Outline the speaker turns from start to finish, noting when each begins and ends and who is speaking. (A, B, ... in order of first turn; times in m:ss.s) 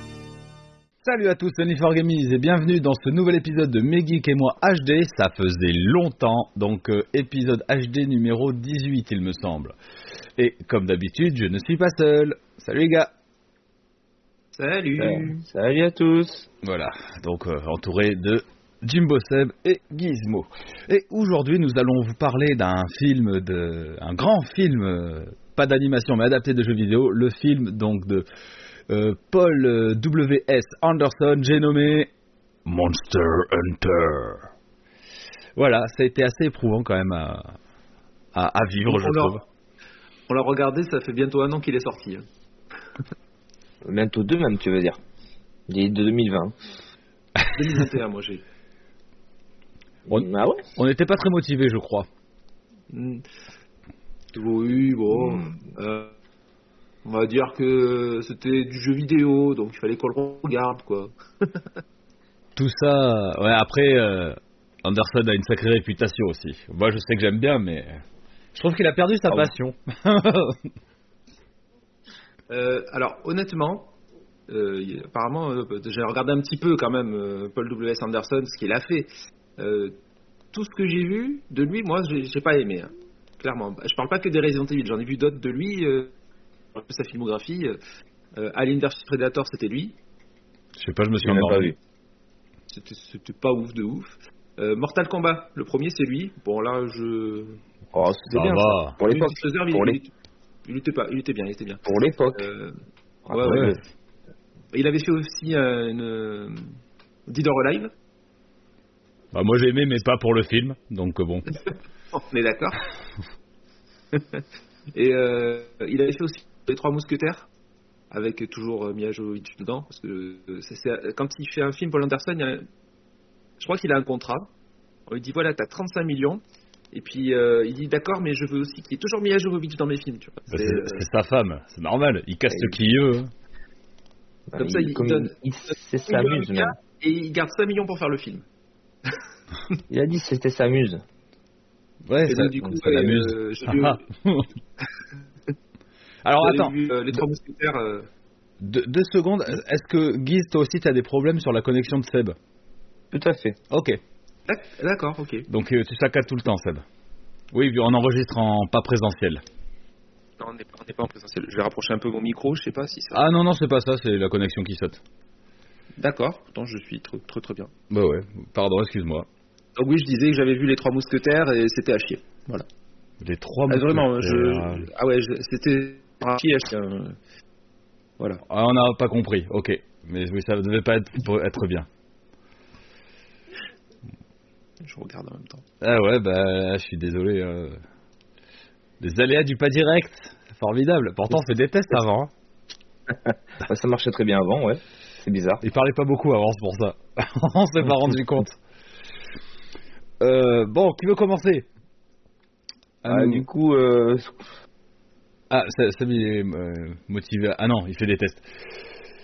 0:01.0-0:09.8 A
0:10.4-0:13.1 A
0:14.5-0:15.4 B
0:15.0-0:16.5 C
0:16.6-0:28.3 A
0:28.9-0:32.1 A
0:32.7-0:34.5 A
0:35.6-0:37.6 A
0:38.3-0:39.4 A
0:38.9-0:39.4 B
0:40.3-0:42.2 B
0:43.8-0:45.0 C
0:45.7-0:46.5 C
0:47.5-0:48.4 B
0:50.1-0:52.1 A
0:50.1-0:50.6 C
0:52.9-0:53.2 B
0:54.3-0:56.1 B
0:55.1-0:55.6 C
0:57.0-1:01.6 B
1:02.6-1:08.0 A
1:08.6-1:10.6 A
1:12.5-1:14.0 B
1:14.5-1:20.0 B
1:20.5-1:26.1 B
1:26.7-1:27.8 B
1:28.4-1:30.0 B
1:30.8-1:31.7 A
1:31.2-1:31.8 C
1:32.7-1:37.6 B
1:37.9-1:40.0 C
1:38.2-1:39.0 A
1:39.0-1:40.1 B
1:40.6-1:42.8 B
1:41.8-1:42.4 C
1:43.3-1:43.8 C
1:43.3-1:43.7 B
1:43.4-1:43.7 A
1:44.7-1:46.7 B
1:47.3-1:47.9 B
1:49.3-1:51.5 A
1:52.1-1:52.8 B
1:54.1-1:54.4 B
1:54.9-1:57.5 B
1:58.1-2:02.7 B
2:03.6-2:04.5 B
2:05.1-2:11.0 B
2:10.5-2:13.3 A
2:12.5-2:12.8 C
2:14.5-2:16.8 C
2:14.6-2:15.3 B
2:16.1-2:18.5 B
2:19.9-2:21.0 C
2:22.1-2:24.5 A
2:22.3-2:24.0 B
2:26.2-2:27.2 A
2:26.4-2:28.1 B
2:28.6-2:32.4 A
2:33.1-2:33.6 C
2:33.7-2:34.0 A
2:34.5-2:35.5 B
2:35.5-2:36.8 A
2:37.5-2:39.4 A
2:40.4-2:43.2 B
2:43.1-2:45.0 A
2:46.0-2:47.7 B
2:47.9-2:49.3 A
2:49.8-2:52.7 B
2:53.2-2:54.9 A
2:53.7-2:57.2 B
2:58.5-3:01.9 A
3:04.8-3:05.6 B
3:05.8-3:07.8 A
3:09.0-3:12.3 A
3:13.3-3:15.6 C
3:15.6-3:18.6 A
3:20.2-3:21.6 A
3:23.0-3:23.4 A
3:23.1-3:24.5 C
3:25.5-3:28.5 A